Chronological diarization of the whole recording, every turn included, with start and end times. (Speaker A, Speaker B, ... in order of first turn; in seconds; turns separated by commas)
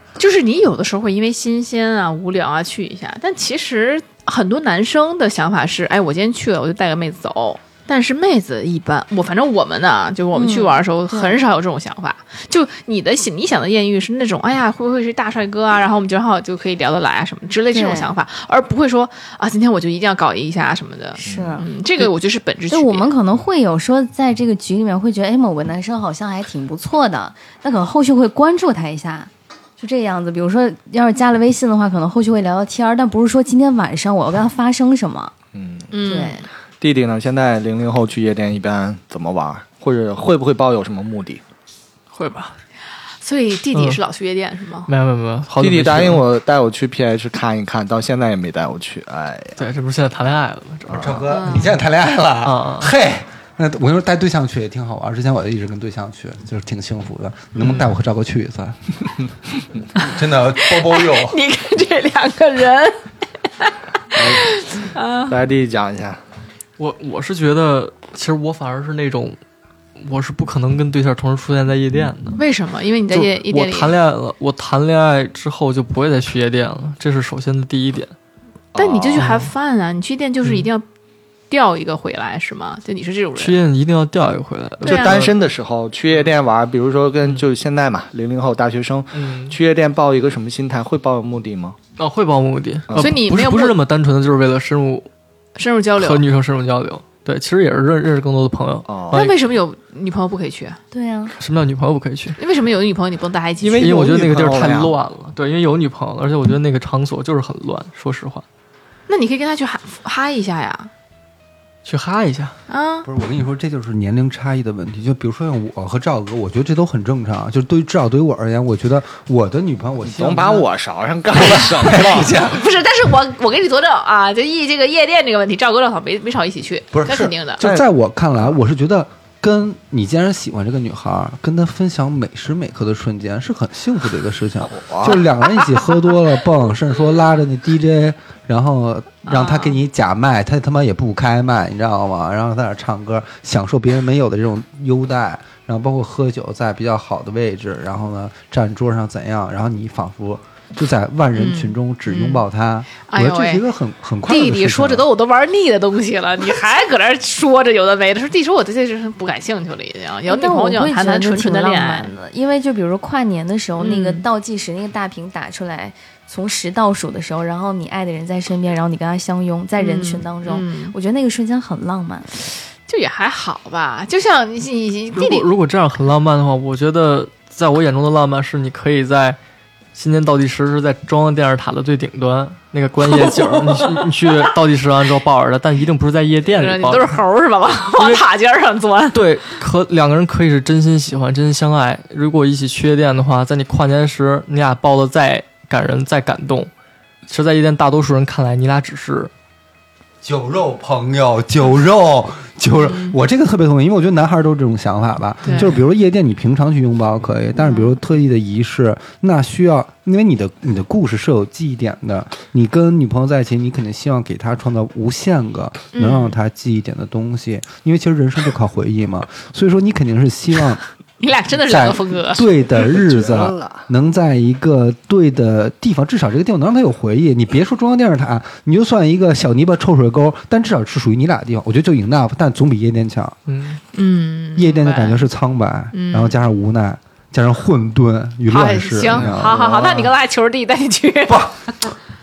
Speaker A: 0.2-23.1, Speaker B: 10.3-11.4, Speaker B: 17.7-18.1, Speaker C: 21.2-21.6, Speaker B: 21.2-22.1, Speaker B: 22.7-35.3, Speaker C: 35.5-35.9, Speaker A: 35.9-36.5, Speaker B: 36.0-36.4, Speaker C: 36.8-41.4, Speaker D: 42.1-42.5, Speaker A: 43.2-44.9, Speaker D: 43.7-44.0, Speaker D: 44.9-46.2, Speaker C: 45.6-49.6, Speaker D: 49.6-51.6, Speaker E: 50.9-58.8, Speaker A: 51.3-51.7, Speaker D: 52.4-52.9, Speaker E: 60.0-61.4, Speaker A: 60.6-63.1, Speaker A: 63.6-65.4, Speaker C: 64.1-64.5, Speaker C: 65.3-66.2, Speaker D: 66.8-69.4, Speaker D: 70.0-72.4, Speaker A: 72.4-74.0, Speaker D: 73.1-78.1, Speaker C: 78.7-79.4, Speaker A: 78.8-80.8, Speaker D: 79.2-79.5, Speaker A: 81.5-83.6, Speaker D: 83.4-85.3, Speaker C: 84.8-91.8, Speaker A: 84.9-85.3, Speaker D: 89.1-89.6, Speaker D: 92.0-95.1, Speaker C: 92.9-93.2, Speaker A: 93.0-93.8, Speaker A: 95.6-96.2, Speaker D: 96.0-99.4, Speaker C: 98.9-99.2, Speaker A: 99.1-100.8, Speaker B: 100.9-101.3, Speaker D: 101.4-102.4, Speaker A: 102.4-103.9, Speaker C: 103.6-105.0, Speaker D: 103.8-108.5, Speaker A: 109.1-110.9, Speaker D: 111.8-112.5, Speaker A: 112.7-113.1, Speaker E: 113.0-120.7, Speaker C: 120.0-122.4, Speaker E: 121.3-122.6, Speaker A: 122.3-127.6, Speaker E: 126.9-155.1, Speaker C: 134.6-135.2, Speaker A: 139.3-139.8, Speaker A: 151.3-152.4, Speaker A: 153.1-153.6, Speaker A: 154.3-162.1, Speaker B: 160.3-172.4, Speaker A: 163.8-164.3, Speaker A: 169.8-170.9, Speaker A: 172.9-175.5, Speaker D: 175.2-179.4, Speaker D: 179.9-187.2, Speaker A: 183.1-184.1, Speaker A: 186.5-189.2, Speaker D: 188.0-188.2, Speaker D: 189.1-196.7, Speaker D: 197.3-199.3, Speaker E: 200.2-220.8, Speaker A: 202.8-203.2, Speaker A: 205.4-205.8, Speaker A: 207.6-208.0, Speaker A: 215.9-216.4, Speaker A: 221.2-222.4, Speaker E: 221.7-233.4, Speaker C: 222.9-223.8, Speaker D: 233.5-233.8, Speaker A: 233.9-235.3, Speaker E: 234.6-239.6, Speaker A: 235.9-236.4, Speaker A: 238.5-241.5, Speaker C: 239.2-240.1, Speaker E: 241.3-241.9